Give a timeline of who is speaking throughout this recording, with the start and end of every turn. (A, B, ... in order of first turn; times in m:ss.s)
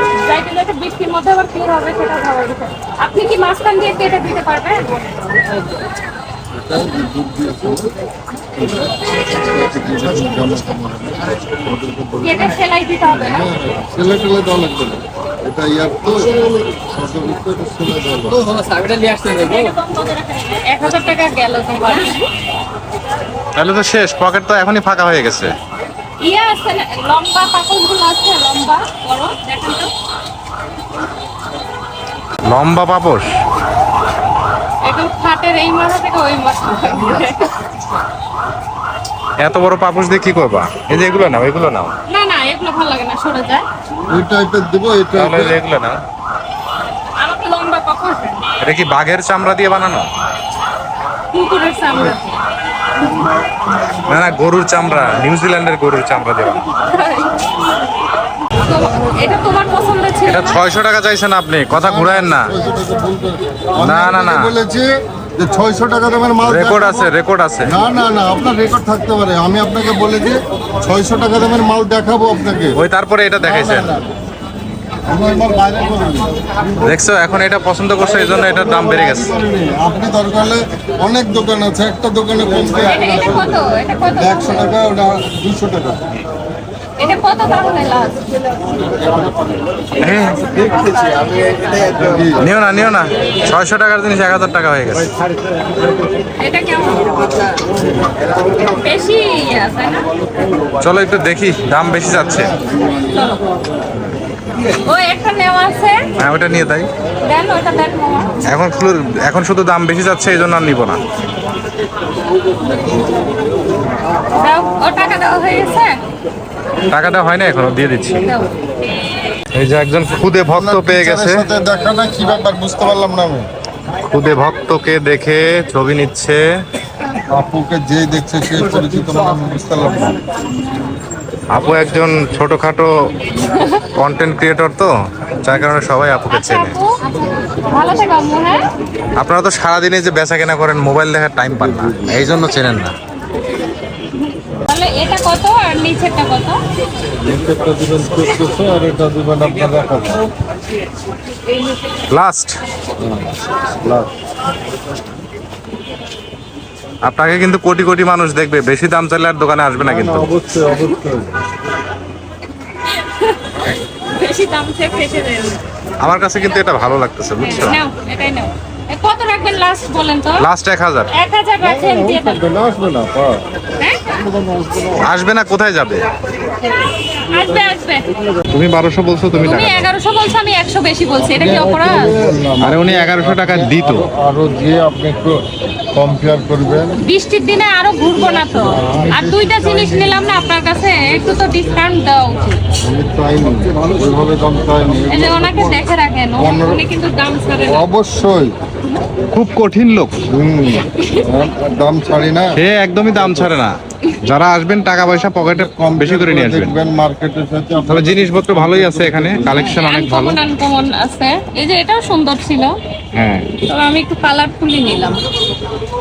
0:00.2-0:05.1 A
0:06.6-0:07.9 B
0:08.6-0:18.5 B
0:12.2-0:13.5 A
0:19.1-0:22.2 A
0:23.6-0:25.5 C
0:26.2-0:29.9 A
0:32.5-0:33.3 C
0:34.8-0:37.6 A
0:39.4-0:42.0 C
0:42.1-0:43.7 A
0:44.1-0:45.6 B
0:45.2-0:46.0 C
0:47.2-0:48.4 A
0:48.6-0:50.1 C
0:51.3-0:52.4 A
0:53.9-0:56.6 C
0:56.9-0:57.4 A
0:58.6-1:00.6 A
1:00.3-1:02.5 C
1:01.7-1:07.1 B
1:03.8-1:04.5 C
1:06.4-1:07.8 C
1:07.6-1:12.8 B
1:12.7-1:14.0 C
1:13.4-1:14.1 B
1:15.0-1:16.8 B
1:16.8-1:19.3 C
1:18.8-1:23.6 B
1:22.7-1:24.8 A
1:24.2-1:26.0 B
1:27.0-1:28.2 A
1:30.0-1:30.6 C
1:31.8-1:32.4 B
1:32.4-1:35.1 C
1:36.4-1:37.1 A
1:38.6-1:40.0 A
1:40.8-1:42.6 C
1:43.0-1:43.4 A
1:44.7-1:46.1 A
1:46.2-1:46.9 C
1:47.2-1:48.4 A
1:48.5-1:51.0 C
1:54.3-1:56.0 A
1:56.9-1:58.4 C
1:58.2-1:58.6 A
1:59.6-2:01.5 C
2:00.6-2:03.5 B
2:04.1-2:06.4 C
2:07.3-2:10.2 B
2:11.5-2:12.9 C
2:13.4-2:13.8 A
2:13.9-2:16.8 C
2:16.3-2:17.0 A
2:17.6-2:18.6 A
2:19.2-2:22.9 C
2:21.5-2:22.4 B
2:24.5-2:26.6 A
2:27.2-2:30.2 B
2:32.1-2:32.6 C
2:33.0-2:34.1 B
2:37.0-2:40.3 C
2:39.8-2:41.4 B
2:42.8-2:45.6 A
2:46.0-2:47.8 C
2:47.4-2:50.5 A
2:50.4-2:51.1 C
2:51.1-2:52.4 A
2:51.6-2:53.5 B
2:53.8-2:54.1 A
2:54.1-2:55.0 B
2:55.0-2:56.1 C
2:57.3-2:58.1 A
2:58.5-2:59.9 C
2:59.4-3:02.1 A
3:01.2-3:07.0 B
3:02.6-3:04.1 C
3:07.0-3:12.6 A
3:08.6-3:10.3 B
3:12.8-3:15.8 B
3:15.1-3:17.9 A
3:16.4-3:16.8 B
3:17.7-3:18.5 B
3:19.3-3:20.2 C
3:20.3-3:22.6 B
3:21.0-3:21.3 A
3:22.5-3:26.8 C
3:23.2-3:23.5 B
3:25.7-3:29.7 B
3:27.9-3:30.4 C
3:29.6-3:32.8 A
3:33.1-3:33.5 C
3:33.7-3:35.2 A